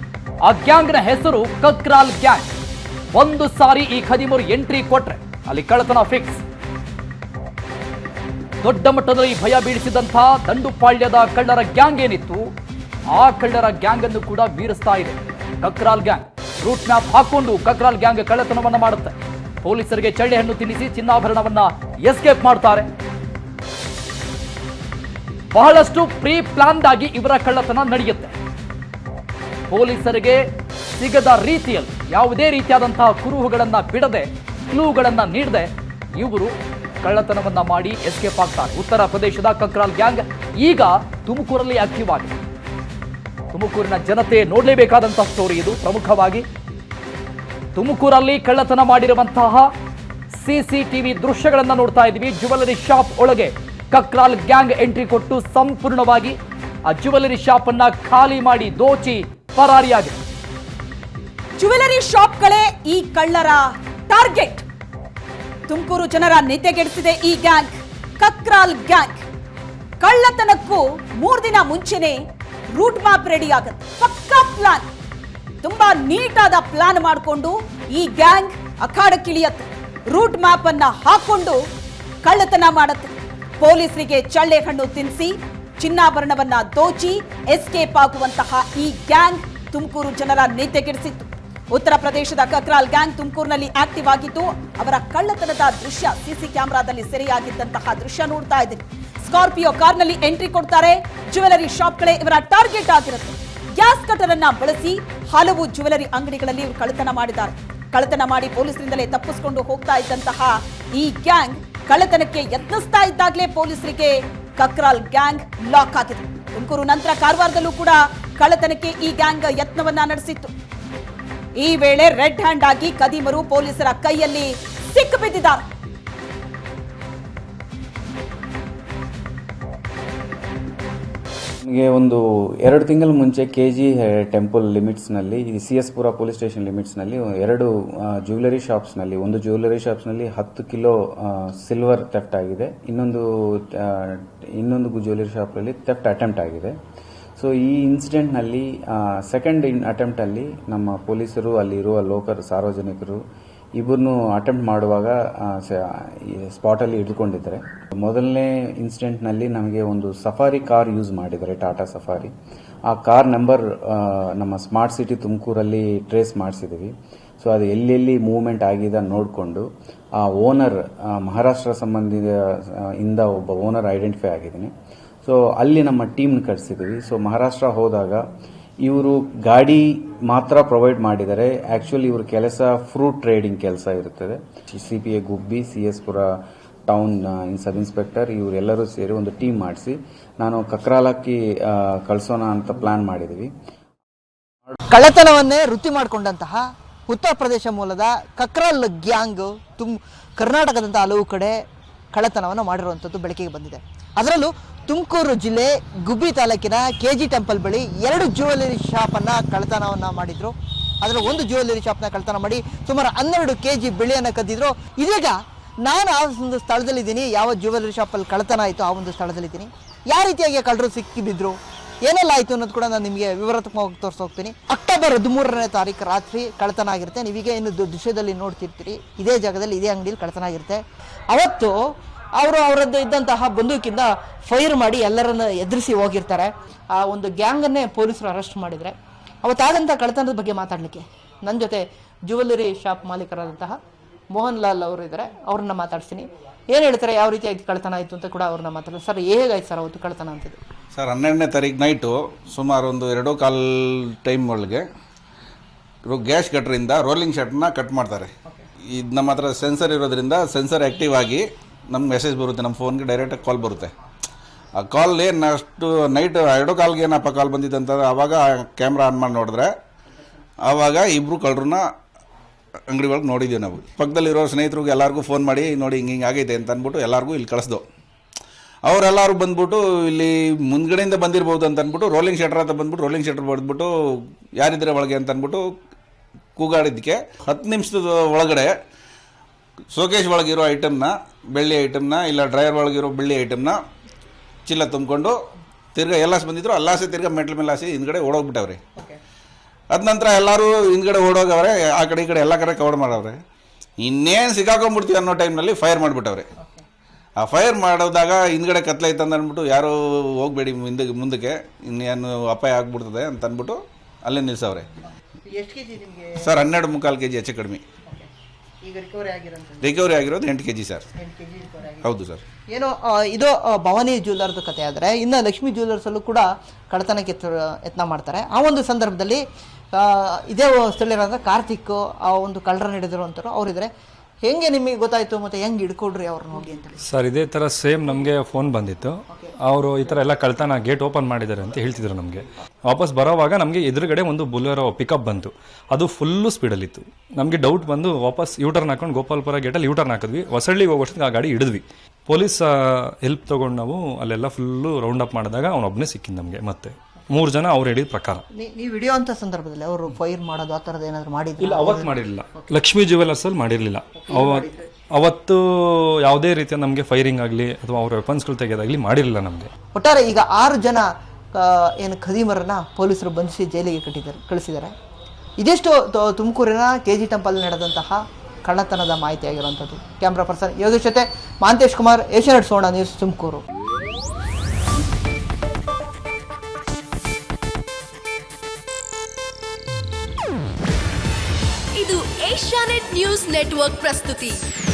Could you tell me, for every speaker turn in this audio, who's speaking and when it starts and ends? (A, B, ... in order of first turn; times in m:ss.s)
0:00.4-0:02.5 A
0:03.1-0:06.4 A
0:08.6-0:12.5 A
0:13.1-0:22.9 A
0:25.5-0:28.3 A
0:29.7-0:30.4 A
0:31.0-0:42.4 A
0:43.5-0:46.4 A
0:47.8-0:49.7 A
0:50.3-1:00.2 A
1:01.6-1:04.6 B
1:05.7-1:09.2 B
1:10.0-1:12.2 B
1:12.7-1:14.9 B
1:15.6-1:21.6 B
1:22.2-2:00.5 B
2:01.6-2:05.6 B
2:11.6-2:26.8 C
2:27.4-2:33.2 C
2:33.8-2:42.3 C
2:42.9-2:49.7 C
2:50.2-2:54.7 C
2:55.2-2:58.3 C
2:58.8-3:06.4 C
3:06.9-3:13.5 C
3:14.9-3:21.6 D
3:22.1-3:51.8 D
3:52.4-4:03.8 D
4:04.3-4:10.6 D
4:10.9-4:14.9 E
4:16.0-4:18.3 E
4:18.9-4:23.9 E
4:24.8-4:29.7 E
4:30.7-4:31.8 E
4:32.9-4:37.8 E
4:38.8-4:43.9 E
4:44.6-4:45.6 E
4:46.6-4:48.7 E
4:49.9-4:53.8 E
4:54.7-4:55.4 E
4:56.0-4:58.8 E
4:59.9-5:03.4 E
5:04.0-5:06.5 E
5:07.4-5:14.9 E
5:15.4-5:16.4 D
5:16.4-5:17.8 E
5:18.8-5:20.1 D
5:19.8-5:21.1 E
5:21.2-5:22.1 D
5:22.0-5:22.4 E
5:22.7-5:29.4 D
5:29.9-5:33.9 D
5:34.4-5:37.0 D
5:37.0-5:58.4 F
5:58.5-6:02.7 D
6:01.6-6:09.7 F
6:04.1-6:04.9 D
6:09.9-6:14.9 D
6:15.6-6:23.6 D
6:32.0-6:34.6 G